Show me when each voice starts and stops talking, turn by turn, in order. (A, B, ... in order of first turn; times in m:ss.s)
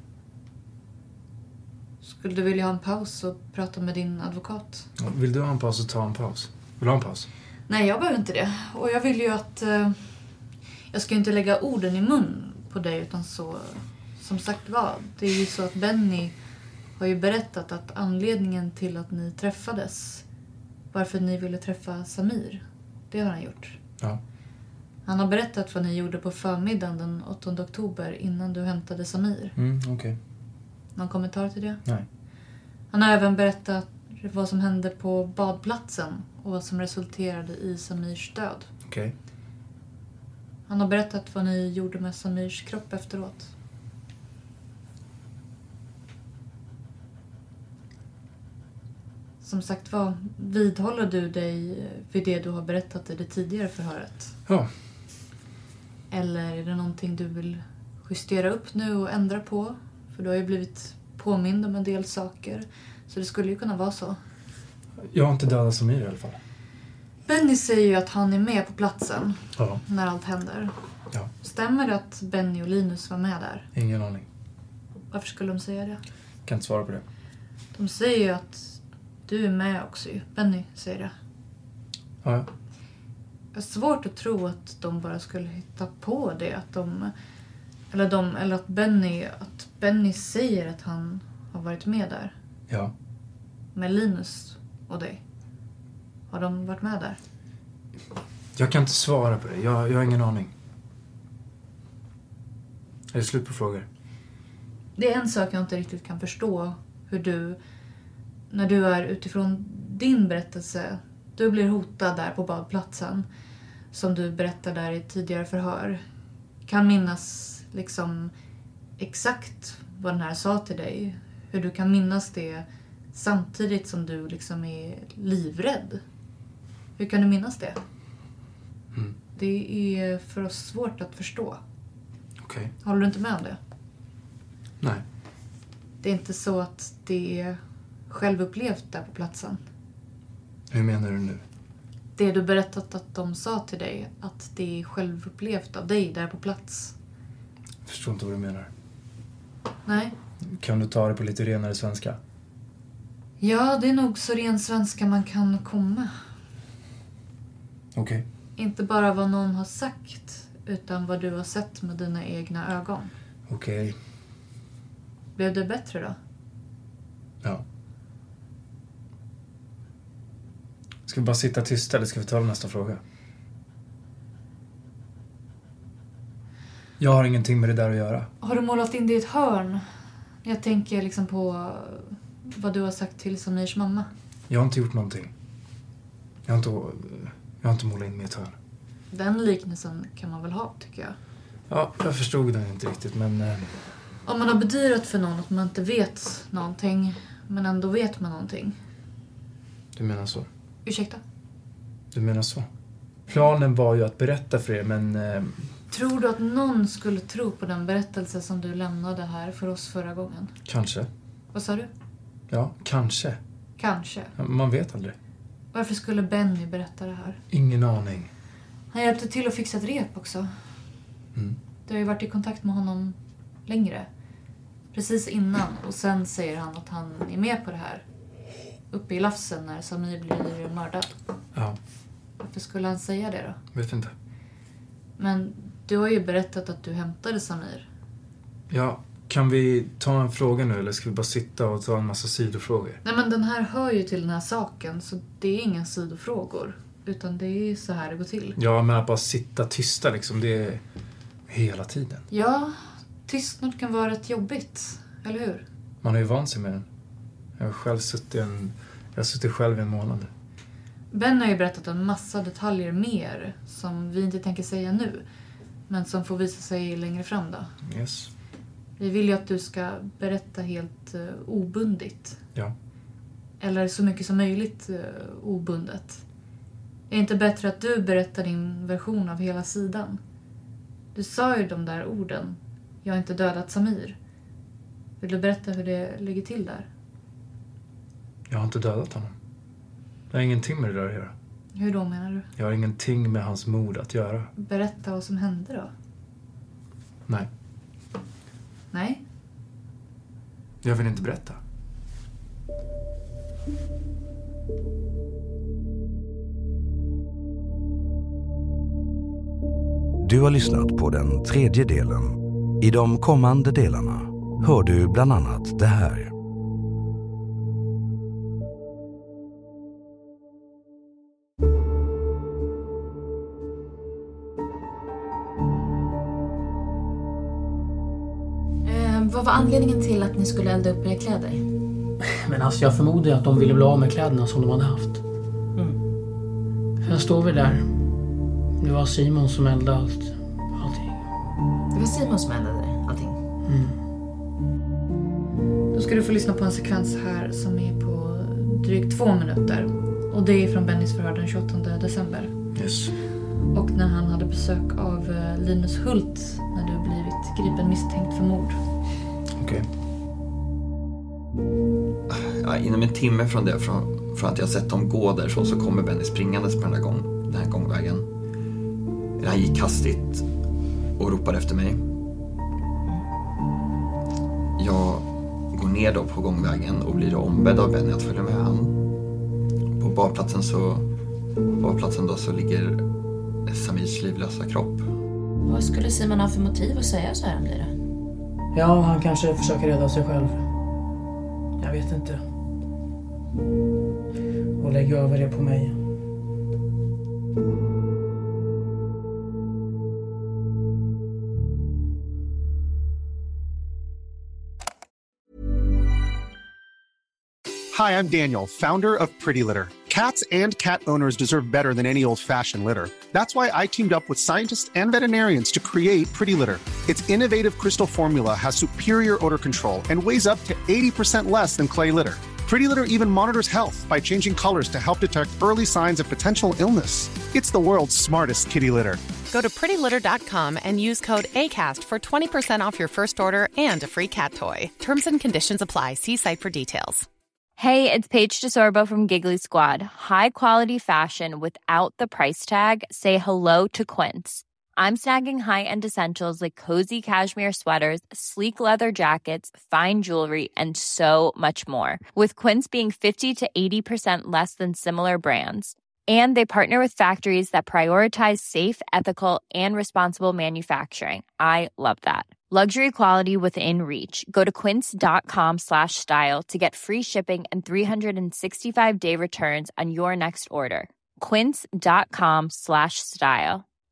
0:02.0-0:04.9 A
0:05.0-0:07.3 B
0:07.7-0:10.0 A
0:10.9-0:16.3 A
0:17.0-0:20.2 A
0:20.9-0:23.8 A
0:25.0-0:29.5 A
0:29.6-0:30.2 B
0:31.0-0:31.8 A
0:32.9-0:38.7 A
0:38.8-0:39.1 B
0:40.7-0:43.5 A
0:49.4-0:54.3 A
0:56.1-1:04.2 A
1:05.0-1:06.4 B
1:07.3-1:10.7 A
1:09.6-1:09.8 B
1:11.4-1:13.7 A
1:13.7-1:14.2 B
1:15.1-1:16.0 A
1:16.4-1:17.0 B
1:17.7-1:21.1 A
1:22.2-1:22.5 B
1:23.5-1:27.1 A
1:27.9-1:32.3 A
1:33.7-1:35.2 A
1:36.3-1:37.2 A
1:38.6-1:40.5 B
1:43.1-1:43.8 B
1:45.0-1:47.6 A
1:48.5-1:53.3 A
1:53.9-1:56.0 A
1:56.6-1:58.3 A
1:59.0-2:06.0 A
2:07.0-2:07.8 A
2:09.3-2:11.6 A
2:12.4-2:12.7 B
2:12.8-2:13.6 A
2:16.0-2:17.6 A
2:18.1-2:19.6 A
2:20.7-2:21.4 B
2:22.2-2:26.9 A
2:27.8-2:28.7 B
2:29.8-2:30.1 A
2:30.5-2:32.2 B
2:33.4-2:36.1 A
2:37.9-2:38.2 B
2:38.6-2:43.1 A
2:43.5-2:44.0 B
2:45.4-2:46.2 A
2:51.1-2:53.0 B
2:57.0-2:58.3 B
2:58.4-2:59.8 A
3:00.4-3:04.1 A
3:04.5-3:05.3 B
3:06.4-3:08.5 B
3:09.1-3:11.2 A
3:11.7-3:13.8 B
3:14.2-3:18.8 A
3:19.9-3:20.5 B
3:20.8-3:21.2 A
3:22.1-3:22.7 B
3:23.3-3:25.6 B
3:25.9-3:30.5 A
3:30.6-3:31.1 B
3:31.5-3:31.9 A
3:32.5-3:33.4 B
3:33.8-3:34.3 A
3:34.4-3:35.1 B
3:35.7-3:37.4 A
3:37.5-3:38.3 B
3:38.9-3:40.5 A
3:41.8-3:43.1 A
3:43.7-3:44.1 A
3:44.9-3:48.0 A
3:48.9-3:51.1 A
3:52.4-3:53.6 A
3:53.7-3:54.1 B
3:55.2-3:57.8 A
3:58.7-4:03.0 B
4:03.0-4:08.6 A
4:08.6-4:10.8 B
4:11.5-4:12.2 B
4:12.3-4:15.6 A
4:16.0-4:16.8 B
4:17.6-4:20.3 B
4:21.1-4:25.2 A
4:25.9-4:27.7 A
4:27.8-4:28.3 B
4:29.0-4:32.4 A
4:33.6-4:36.2 A
4:37.1-4:40.2 A
4:41.1-4:44.2 A
4:45.2-4:46.8 A
4:48.5-4:49.3 B
4:50.3-4:51.3 B
4:51.7-4:52.5 A
4:52.6-4:54.5 B
4:54.6-4:55.9 A
4:58.9-4:59.2 A
5:00.8-5:01.6 B
5:10.2-5:16.3 C
5:28.8-5:31.7 D
5:32.2-5:35.2 E
5:37.0-5:38.0 E
5:38.8-5:41.2 E
5:41.9-5:43.4 D
5:43.6-5:44.0 E
5:45.9-5:52.5 A
5:52.7-5:53.1 B
5:53.7-5:58.8 A
5:59.6-5:59.8 B
6:02.3-6:08.3 F
6:09.4-6:10.4 F
6:11.2-6:12.0 F
6:14.8-6:19.0 F
6:20.0-6:21.1 F
6:21.8-6:23.0 F
6:23.6-6:25.1 F
6:25.6-6:28.0 D
6:28.7-6:30.7 E
6:31.8-6:32.4 E
6:34.8-6:36.0 E
6:47.9-7:09.2 G
7:09.5-7:17.2 H
7:17.8-7:53.8 I